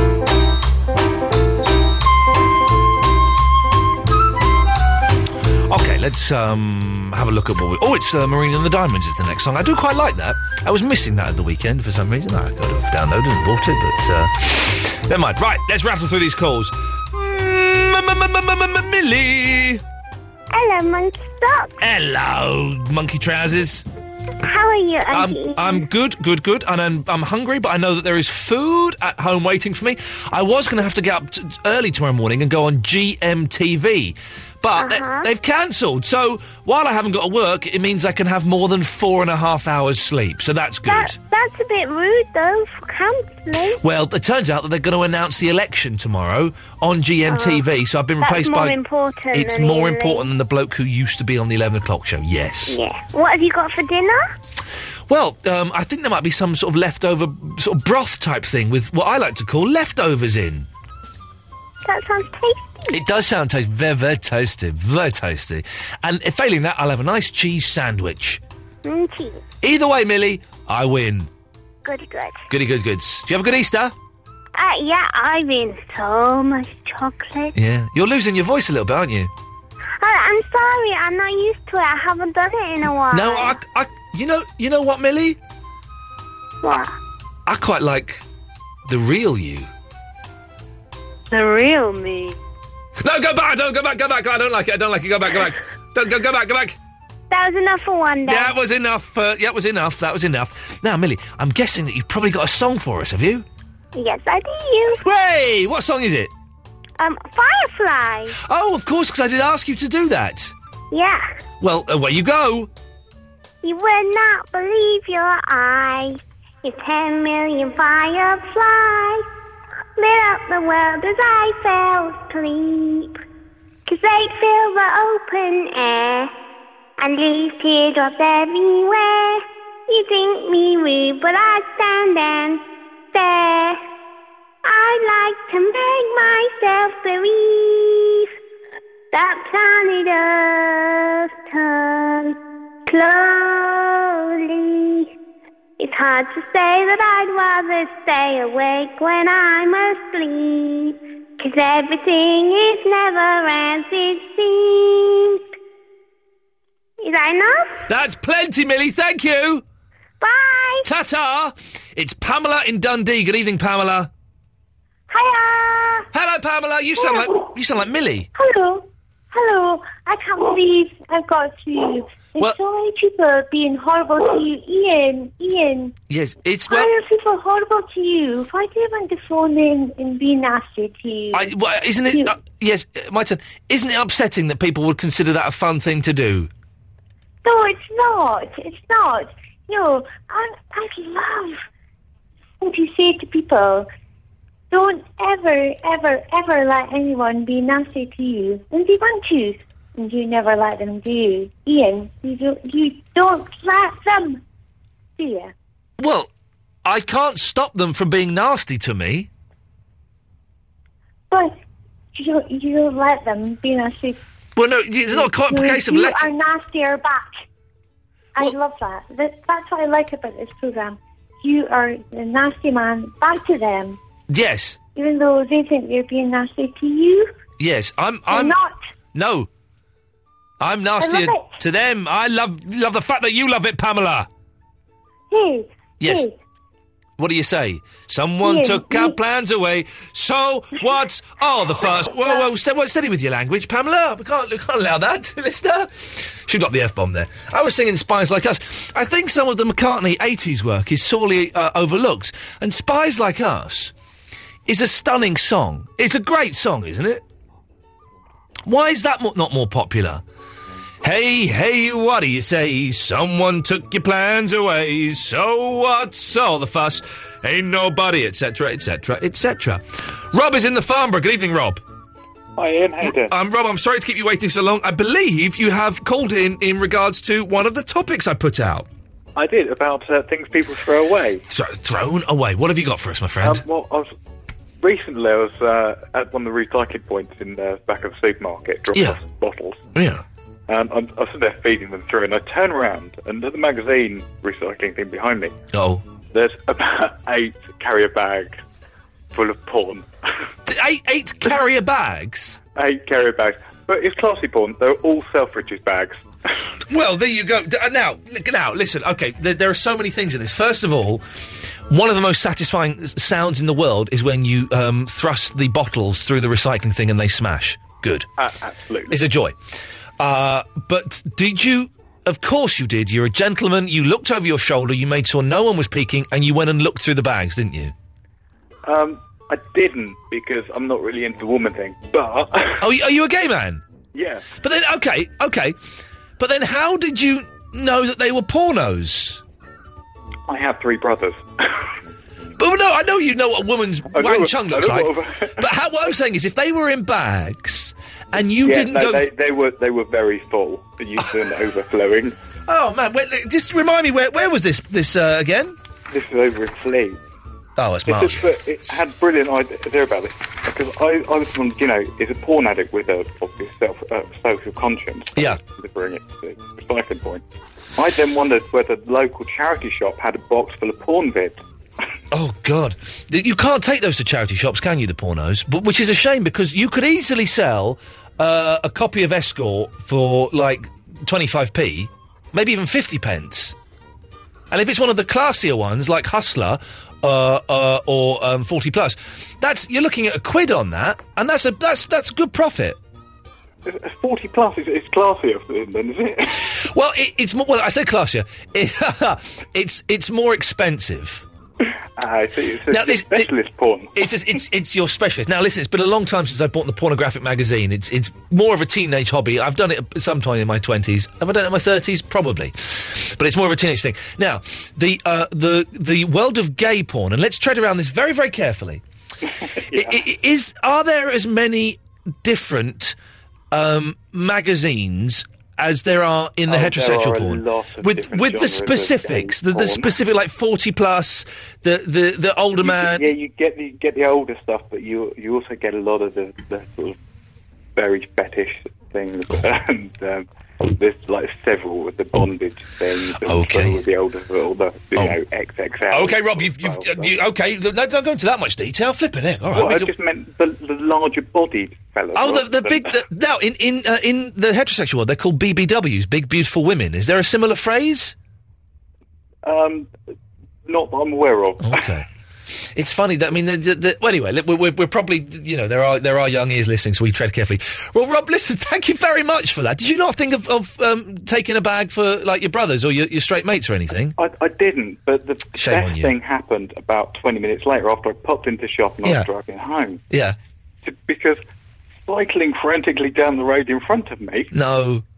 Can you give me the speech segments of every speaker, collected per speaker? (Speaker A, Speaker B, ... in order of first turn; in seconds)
Speaker A: 5.7-19.8, 21.8-23.9, 25.1-41.2, 43.8-48.8, 49.3-52.8, 55.1-60.7, 62.9-68.4, 69.6-71.3, 72.5-73.9, 77.6-79.3, 83.1-85.4, 87.5-88.2, 88.9-89.7, 93.0-96.8, 98.3-103.5, 105.0-106.3, 108.4-110.5, 111.6-112.7, 157.9-159.6, 160.8-164.1, 166.1-168.3, 176.1-177.0, 181.3-186.5, 206.0-206.3, 206.8-209.3, 214.6-216.3, 224.3-224.8, 227.6-228.6, 229.2-229.5, 230.6-234.3, 236.0-236.3, 237.2-253.9, 254.7-257.2, 258.7-260.2, 261.0-271.8, 273.0-278.9, 281.5-283.6, 290.0-290.2, 295.7-296.1, 300.7-302.6, 306.9-311.2, 311.9-318.3, 319.1-319.6, 320.2-327.9, 332.8-333.8, 334.6-335.8, 336.4-339.4, 342.6-349.3, 352.7-355.8, 357.8-358.4, 372.3-383.8, 384.7-393.0, 396.7-401.4, 402.9-403.5, 404.2-419.0, 419.9-423.2, 423.7-433.3, 443.4-444.0, 446.1-450.1, 452.4-458.3, 461.8-462.3, 462.9-474.4, 475.8-476.3, 480.3-480.6, 484.7-485.2
Speaker B: 20.5-21.8, 24.4-25.8, 34.8-35.3, 40.9-43.8, 47.3-47.6, 48.2-50.3, 52.7-54.3, 61.9-63.0, 68.8-69.4, 71.8-72.5, 74.6-77.5, 80.0-83.6, 86.6-86.9, 91.3-92.3, 97.3-98.5, 104.0-105.0, 107.0-108.4, 110.9-111.3, 113.6-119.2, 120.0-123.2, 123.9-126.3, 127.0-132.6, 133.1-133.8, 134.7-138.3, 139.1-142.4, 142.9-145.1, 145.8-155.4, 157.0-157.8, 160.2-160.9, 165.1-166.1
Speaker C: 168.3-175.9, 176.7-181.4, 187.4-191.6, 192.6-193.9, 194.7-204.4, 205.2-205.5, 211.3-211.6, 212.2-214.2, 215.1-217.3, 218.4-224.0, 224.9-227.3, 228.3-228.8, 231.0-231.5, 235.3-236.3, 238.4-239.1
Speaker D: 272.6-273.3, 279.4-281.4, 283.4-284.1, 284.8-289.8, 290.7-295.5, 296.3-298.6, 299.3-300.1, 302.8-306.2, 318.4-319.2, 328.9-332.8, 334.1-334.5, 340.5-341.7, 344.1-345.6, 348.6-352.4, 356.1-357.2, 358.1-367.4, 368.0-371.6, 393.9-396.7, 402.2-404.3, 419.6-420.2, 426.7-430.1, 432.8-437.2, 438.0-447.3, 449.7-453.2, 459.6-460.1, 460.9-462.1, 474.4-480.2, 481.0-481.6, 482.3-484.7